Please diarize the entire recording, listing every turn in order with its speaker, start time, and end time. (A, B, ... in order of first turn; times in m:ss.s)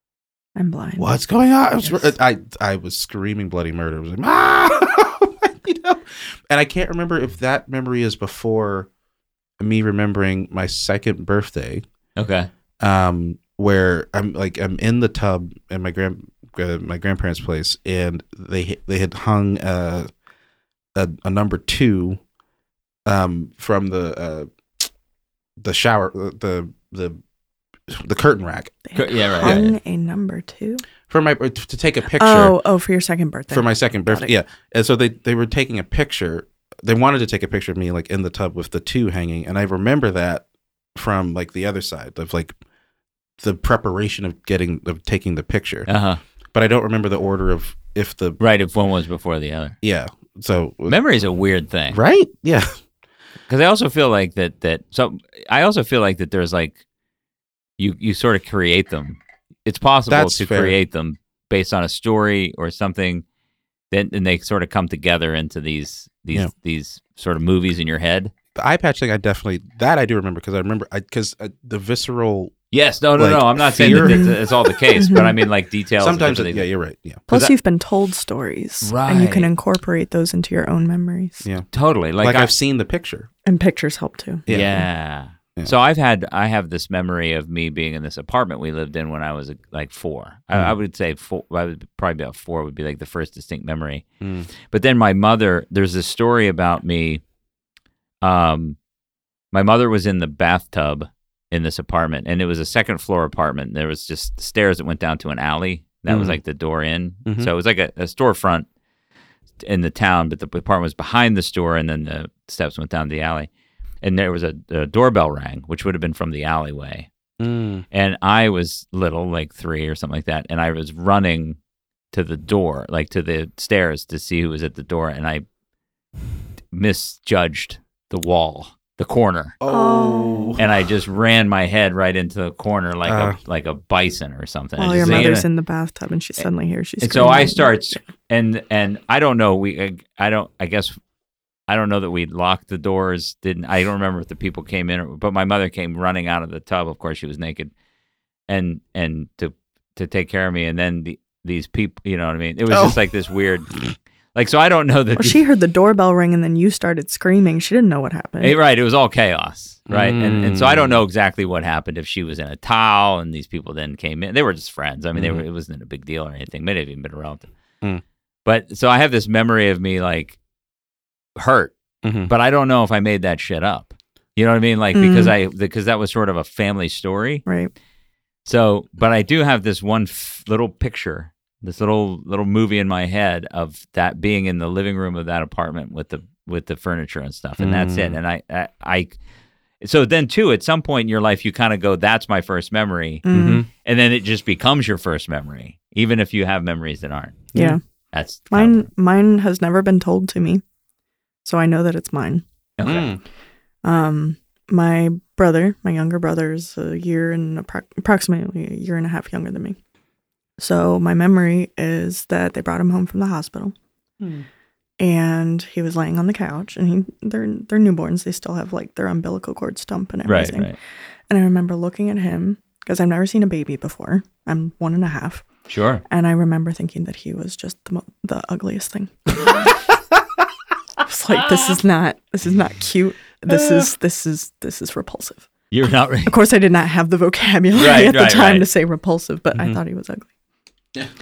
0:00.6-0:01.1 A
0:01.0-0:08.9 B
0:01.8-0:02.1 A
0:09.6-0:11.8 B
0:12.2-0:12.5 C
0:12.8-0:20.1 B
0:20.9-0:22.2 B
0:23.0-0:24.5 B
0:25.6-0:27.2 B
0:27.9-0:28.8 B
0:28.8-0:30.8 A
0:28.9-0:29.7 C
0:29.3-0:29.7 B
0:31.1-0:32.6 B
0:32.1-0:34.3 A
0:33.5-0:42.6 B
0:43.4-0:45.9 B
0:45.9-0:46.2 C
0:46.5-0:48.4 B
0:48.4-0:49.8 C
0:49.8-0:51.0 B
0:50.9-0:52.0 C
0:51.9-0:52.8 B
0:53.5-0:56.8 C
0:57.8-1:03.2 C
1:00.1-1:00.8 B
1:03.9-1:08.3 C
1:08.6-1:12.6 B
1:12.7-1:16.6 C
1:13.2-1:14.5 B
1:13.9-1:14.4 A
1:14.9-1:15.3 A
1:16.0-1:17.2 B
1:17.3-1:17.5 C
1:17.3-1:21.4 A
1:18.8-1:19.5 C
1:21.4-1:21.7 B
1:21.7-1:22.5 C
1:22.2-1:23.3 B
1:23.4-1:24.4 A
1:24.4-1:24.9 B
1:24.5-1:34.0 C
1:34.2-1:34.5 B
1:34.6-1:37.2 C
1:38.2-1:38.8 C
1:39.5-1:48.6 C
1:46.1-1:46.4 B
1:47.2-1:47.5 B
1:49.6-1:53.5 C
1:54.0-1:57.1 C
1:57.4-1:57.8 B
1:57.9-2:01.6 C
2:02.1-2:05.4 C
2:06.7-2:09.6 C
2:09.6-2:10.7 B
2:09.7-2:10.6 A
2:10.6-2:15.4 C
2:13.0-2:13.4 B
2:14.8-2:18.0 A
2:15.0-2:15.3 B
2:17.0-2:21.0 C
2:21.7-2:27.7 C
2:28.5-2:33.7 C
2:32.7-2:33.0 B
2:34.3-2:35.4 C
2:35.2-2:38.6 A
2:38.4-2:47.5 C
2:39.9-2:41.0 B
2:45.1-2:45.4 B
2:48.4-2:50.4 C
2:51.4-2:51.7 C
2:52.0-2:52.3 B
2:52.3-2:57.4 C
2:54.9-2:55.3 A
2:57.4-2:57.7 A
2:58.4-3:09.2 C
3:07.6-3:08.2 B
3:09.8-3:17.5 C
3:13.2-3:13.6 A
3:13.3-3:13.7 B
3:17.5-3:17.8 A
3:18.1-3:18.9 C
3:18.5-3:20.6 A
3:21.4-3:22.4 A
3:22.8-3:23.1 C
3:22.8-3:23.2 B
3:23.8-3:29.8 A
3:30.6-3:33.7 A
3:34.2-3:34.5 B
3:35.0-3:40.7 A
3:40.2-3:40.7 C
3:41.3-3:45.4 A
3:45.7-3:46.0 C
3:46.1-3:49.7 A
3:51.0-3:55.5 A
3:53.5-3:53.9 B
3:55.7-3:56.4 C
3:56.2-4:00.3 A
3:57.7-3:58.7 C
3:59.5-3:59.8 B